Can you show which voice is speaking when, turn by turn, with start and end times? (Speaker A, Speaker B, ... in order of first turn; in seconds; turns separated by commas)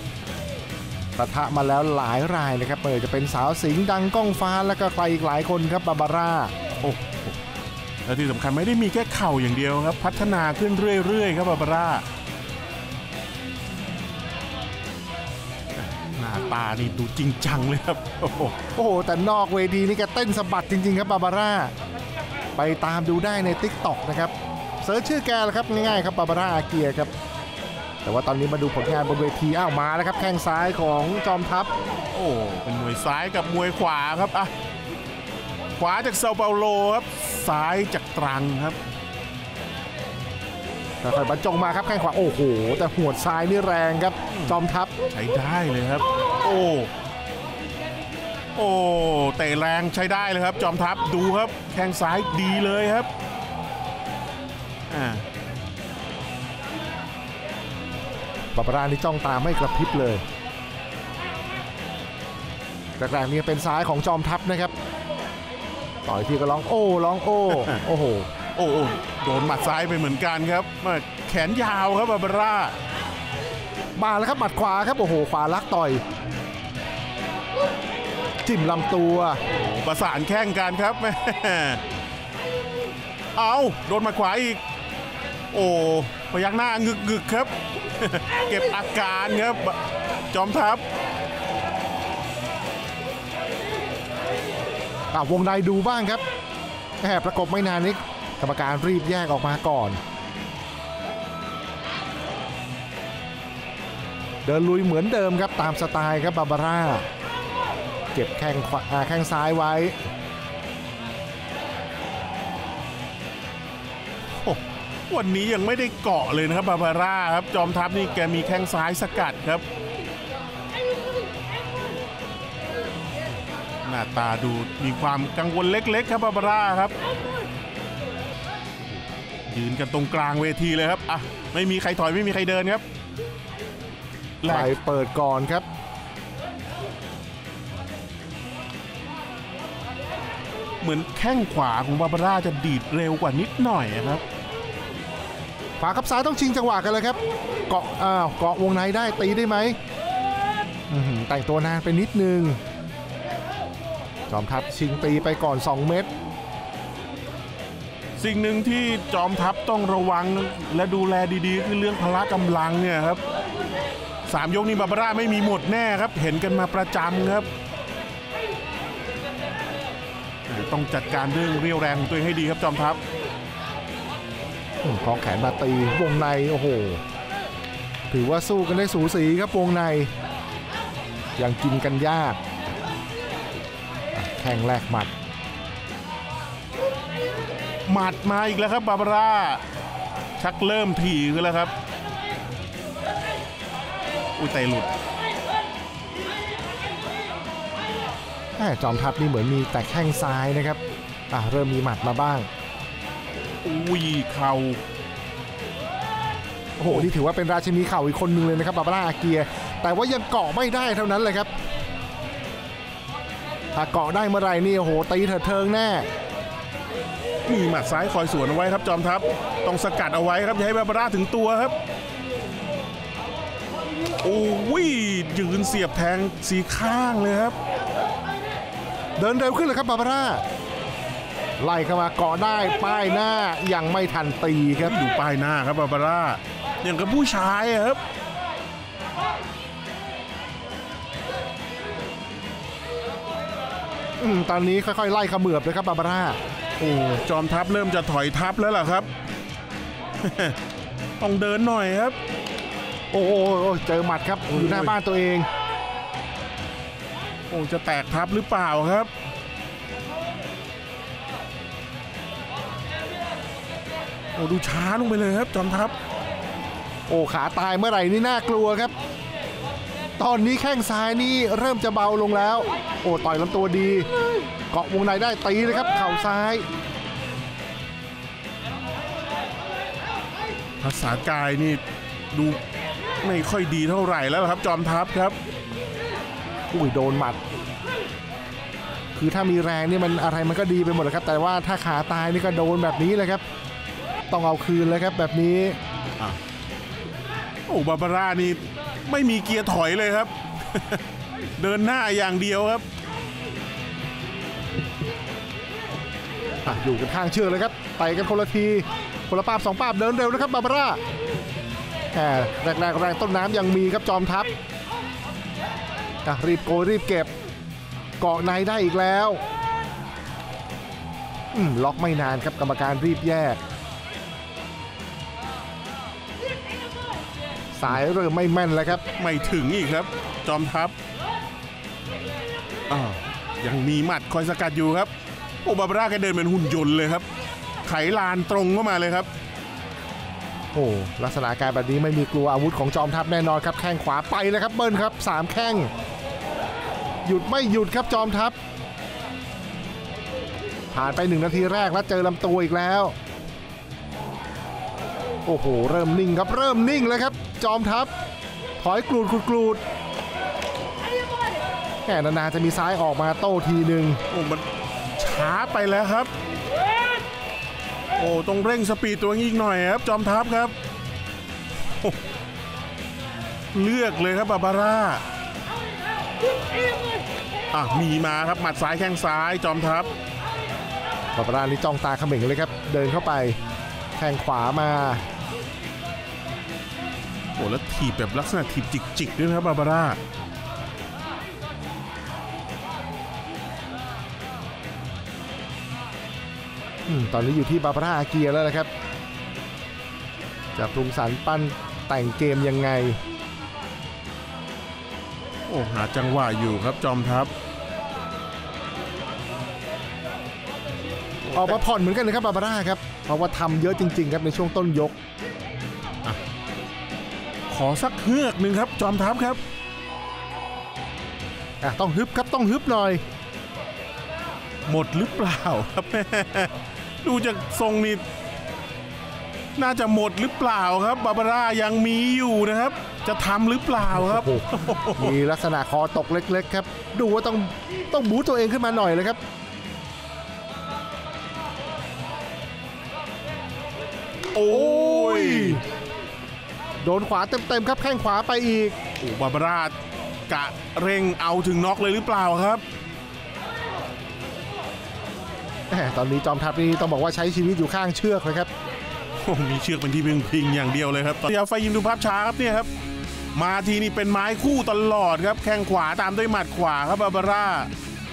Speaker A: 1.2-6.5, Speaker B: 6.8-7.4, Speaker B: 8.1-12.1, Speaker B: 15.8-18.6, Speaker A: 18.8-21.7, Speaker A: 22.6-27.1, Speaker A: 28.0-31.7, Speaker B: 32.1-34.5, Speaker B: 35.8-38.8, Speaker A: 41.0-44.9, Speaker B: 44.3-44.6, Speaker B: 45.1-46.9, Speaker B: 48.6-53.1, Speaker B: 54.9-55.2, Speaker A: 58.5-60.2, Speaker A: 63.0-64.7, Speaker A: 66.1-68.3, Speaker B: 68.5-72.8, Speaker A: 74.0-76.0, Speaker A: 78.5-79.4, Speaker B: 79.5-81.8, Speaker B: 83.4-84.6, Speaker B: 85.5-89.8, Speaker B: 90.3-90.8, Speaker A: 95.1-96.2, Speaker A: 97.0-100.0, Speaker A: 104.5-107.0, Speaker A: 108.1-110.0, Speaker B: 114.4-119.7, Speaker B: 123.8-126.9, Speaker B: 129.5-132.8, Speaker B: 134.4-134.7, Speaker A: 134.5-135.7, Speaker B: 140.8-144.2, Speaker A: 145.8-149.8, Speaker A: 150.9-152.6, Speaker A: 154.3-156.1, Speaker B: 158.2-163.2, Speaker B: 164.3-167.5, Speaker B: 170.5-173.0, Speaker A: 174.8-177.0, Speaker A: 178.1-180.1, Speaker A: 181.4-182.4, Speaker A: 184.2-185.1, Speaker B: 187.9-189.6, Speaker B: 190.4-191.7, Speaker B: 194.4-194.9, Speaker A: 198.6-200.8, Speaker A: 201.3-202.5, Speaker B: 203.6-204.8, Speaker A: 206.8-211.5, Speaker A: 213.7-216.1, Speaker B: 217.4-221.8, Speaker B: 224.2-227.6, Speaker A: 229.2-230.4, Speaker A: 231.6-235.0, Speaker B: 234.8-238.0, Speaker A: 244.2-246.4, Speaker B: 246.8-249.1, Speaker B: 250.2-250.6, Speaker B: 251.2-252.2, Speaker A: 253.1-255.5, Speaker B: 254.5-254.9, Speaker B: 257.5-259.1, Speaker B: 264.4-265.9, Speaker A: 267.1-268.9, Speaker A: 270.2-274.1, Speaker A: 274.7-276.7, Speaker B: 280.8-281.8, Speaker B: 282.3-282.6, Speaker B: 283.2-285.4, Speaker A: 286.7-287.4, Speaker A: 289.1-293.4, Speaker A: 294.3-295.8, Speaker B: 297.7-301.0, Speaker B: 301.6-302.9, Speaker A: 306.6-311.0, Speaker A: 312.1-314.5, Speaker A: 316.2-317.3, Speaker A: 318.2-319.4, Speaker A: 321.5-323.6, Speaker A: 327.8-329.0, Speaker B: 329.1-330.9, Speaker B: 332.9-335.1, Speaker B: 335.6-337.3, Speaker B: 337.9-339.3, Speaker A: 340.7-345.9, Speaker A: 347.2-348.6, Speaker A: 350.9-353.1, Speaker A: 355.5-358.1, Speaker A: 358.8-359.8, Speaker A: 362.1-364.2, Speaker B: 364.3-364.6, Speaker B: 365.2-366.3, Speaker B: 368.2-370.7, Speaker B: 373.7-375.2, Speaker B: 377.7-380.1, Speaker A: 381.4-383.6, Speaker A: 384.2-385.2, Speaker B: 387.6-390.2, Speaker A: 397.1-398.9, Speaker A: 400.8-403.2, Speaker B: 405.7-407.5, Speaker B: 411.4-411.8, Speaker A: 411.5-415.2, Speaker B: 417.7-419.6, Speaker A: 421.8-423.2, Speaker B: 424.9-428.2, Speaker B: 429.8-435.4, Speaker A: 434.1-439.4, Speaker B: 444.5-445.8, Speaker A: 444.7-445.8, Speaker A: 447.0-449.0, Speaker B: 449.2-449.9, Speaker B: 450.5-452.8, Speaker A: 455.9-458.7, Speaker B: 459.4-462.9, Speaker B: 463.6-467.9